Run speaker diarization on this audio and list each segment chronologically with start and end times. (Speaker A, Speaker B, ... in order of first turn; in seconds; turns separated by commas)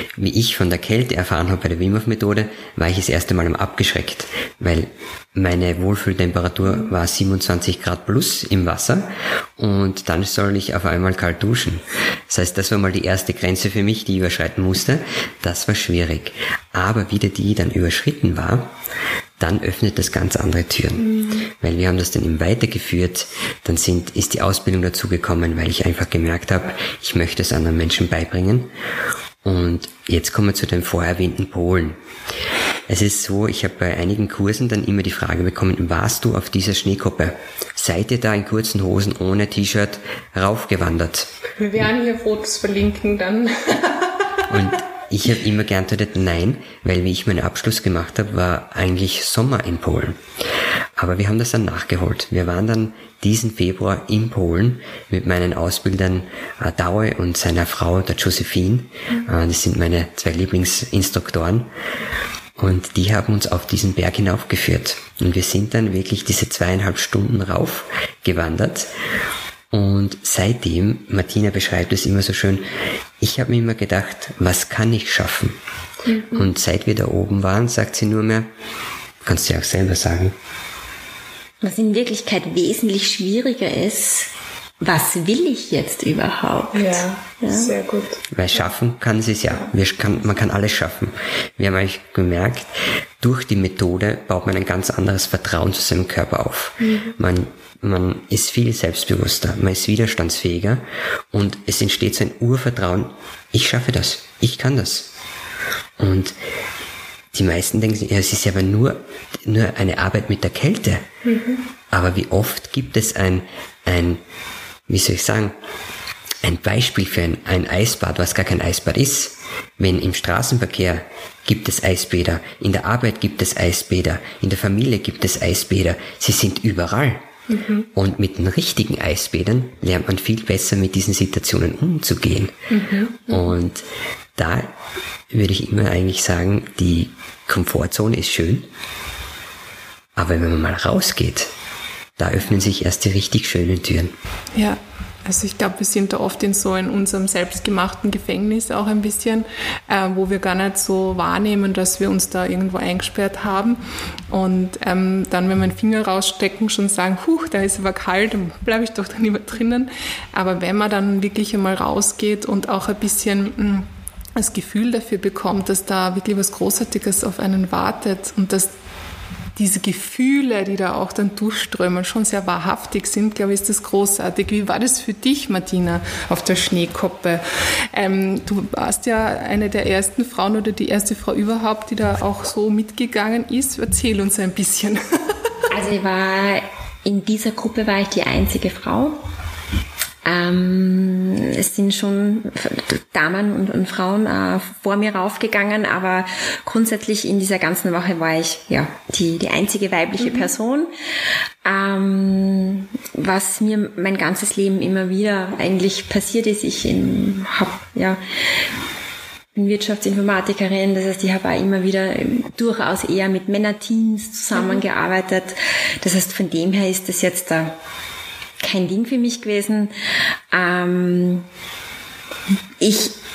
Speaker A: 0.2-18.7, Speaker A: 19.4-28.7, Speaker B: 21.1-21.4, Speaker A: 29.4-32.0, Speaker A: 32.9-41.3, Speaker B: 41.6-44.5, Speaker A: 44.5-50.2, Speaker A: 51.0-61.7, Speaker A: 62.6-68.9, Speaker A: 69.7-72.6, Speaker A: 73.2-75.6, Speaker B: 76.1-76.5, Speaker A: 76.3-78.5, Speaker A: 79.2-80.3, Speaker C: 81.6-84.3, Speaker C: 84.8-87.7, Speaker B: 86.7-88.2, Speaker A: 88.3-92.7, Speaker A: 93.2-105.1, Speaker B: 96.8-97.1, Speaker A: 106.0-106.3, Speaker A: 107.3-111.0, Speaker B: 111.2-111.6, Speaker A: 111.9-114.2, Speaker A: 114.9-115.5, Speaker A: 116.4-127.3, Speaker B: 127.5-127.9, Speaker A: 127.9-132.6, Speaker B: 132.7-133.6, Speaker A: 133.3-133.8, Speaker A: 134.4-134.7, Speaker A: 135.3-138.7, Speaker A: 140.2-141.5, Speaker A: 142.2-144.1, Speaker B: 144.6-168.7, Speaker B: 169.6-185.0, Speaker C: 185.7-189.2, Speaker C: 190.2-200.9, Speaker B: 200.2-200.5, Speaker C: 201.7-208.2, Speaker C: 209.6-217.8, Speaker C: 218.6-219.9, Speaker C: 220.5-221.5, Speaker C: 222.8-223.2